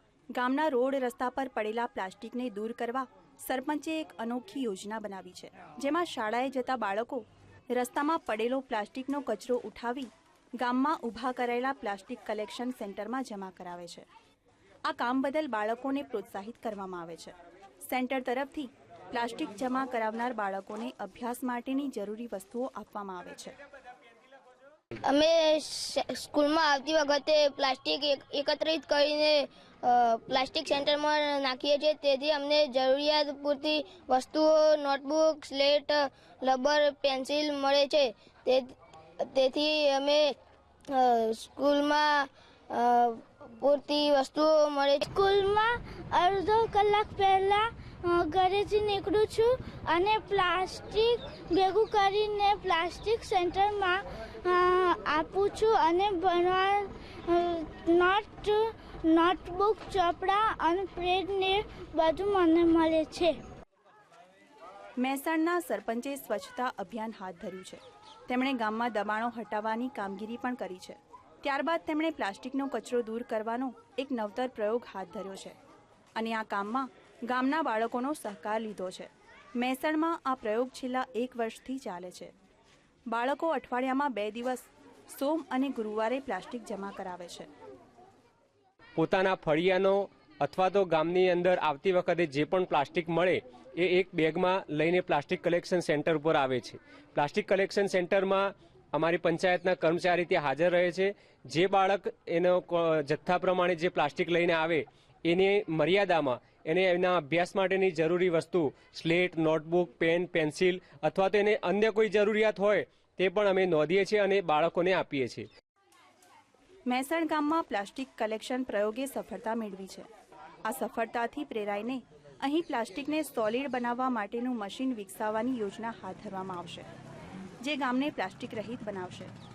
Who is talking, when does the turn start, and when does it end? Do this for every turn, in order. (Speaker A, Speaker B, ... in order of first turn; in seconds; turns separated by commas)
Speaker A: 0.3-14.1, Speaker A: 14.9-23.6, Speaker B: 25.1-40.3, Speaker B: 40.9-45.1, Speaker C: 45.1-63.4, Speaker A: 65.0-75.6, Speaker A: 76.2-82.3, Speaker A: 83.1-87.5, Speaker D: 89.0-115.5, Speaker A: 116.9-120.1, Speaker A: 120.7-126.9, Speaker A: 127.6-129.3